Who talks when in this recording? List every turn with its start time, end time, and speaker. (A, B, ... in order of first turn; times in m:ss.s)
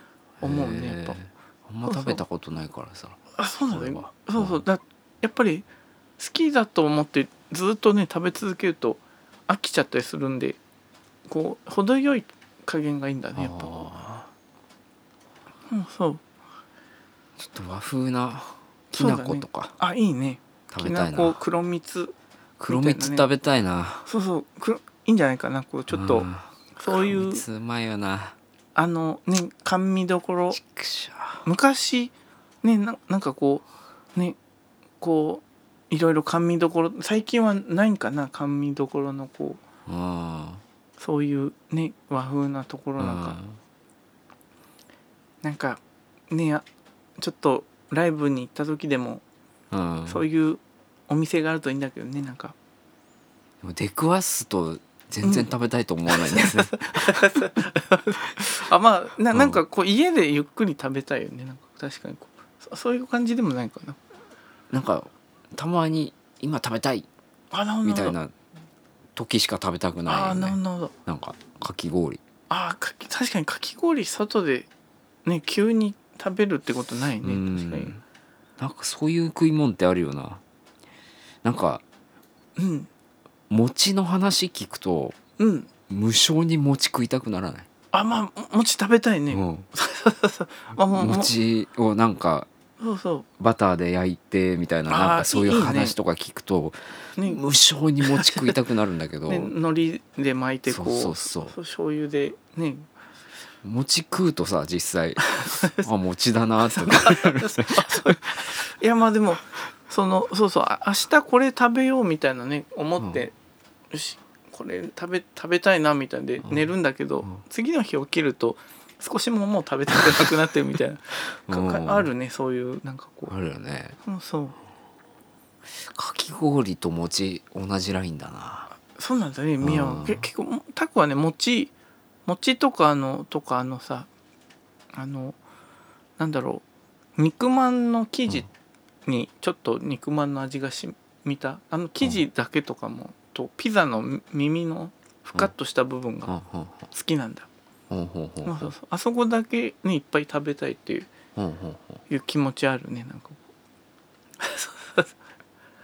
0:00.4-0:04.6 A
0:00.4-0:01.2 B
0:01.9-0:02.2 B
0:03.4-0:05.7 B
0:06.2-0:10.6 B
0:11.3-0:13.8 B
0:13.4-0:14.3 A
0:15.7-0:16.2 B
0:17.4-0:19.8 A
0:18.9-0:22.1 B
0:20.7-0:21.4 A
0:22.6-0:24.1 A
0:22.7-0:23.3 B
0:24.1-0:27.4 B
0:25.9-0:28.4 A
0:28.8-0:30.6 B
0:30.5-0:31.4 A
0:31.4-0:34.4 B
0:35.0-0:39.6 B
0:39.9-0:40.6 A
0:41.0-0:43.4 B
0:43.0-0:43.6 A
0:45.4-0:46.7 B
0:47.2-0:49.2 B
0:49.7-0:50.2 A
0:50.1-0:52.6 B
0:53.6-0:57.2 A
0:55.2-0:55.5 B
0:56.1-1:04.0 B
0:59.3-0:59.6 A
1:04.7-1:07.1 A
1:07.5-1:08.2 B
1:07.8-1:08.3 A
1:09.2-1:12.2 A
1:10.1-1:10.9 B
1:12.5-1:14.7 B
1:15.2-1:17.9 B
1:17.2-1:18.0 A
1:18.6-1:20.4 A
1:21.4-1:21.8 A
1:22.6-1:22.9 B
1:23.5-1:25.2 A
1:25.4-1:25.7 B
1:25.9-1:27.7 A
1:27.9-1:31.3 B
1:29.3-1:29.7 A
1:30.8-1:32.5 A
1:32.8-1:33.3 B
1:33.4-1:39.5 A
1:34.9-1:36.0 B
1:38.0-1:38.5 B
1:39.3-1:42.9 B
1:40.7-1:41.6 A
1:43.6-1:48.2 A
1:45.4-1:45.8 B
1:46.7-1:53.3 B
1:53.9-2:03.3 B
2:01.5-2:02.1 A
2:03.3-2:04.0 A
2:04.0-2:04.6 B
2:05.8-2:08.7 A
2:08.9-2:11.7 B
2:09.6-2:10.3 A
2:12.3-2:14.1 B
2:14.9-2:15.4 B
2:16.2-2:16.6 B
2:17.2-2:18.5 B
2:19.1-2:26.4 B
2:26.3-2:26.9 A
2:26.9-2:27.5 B
2:27.9-2:28.7 A
2:28.4-2:31.1 B
2:31.4-2:32.0 A
2:32.1-2:33.4 B
2:34.4-2:35.1 B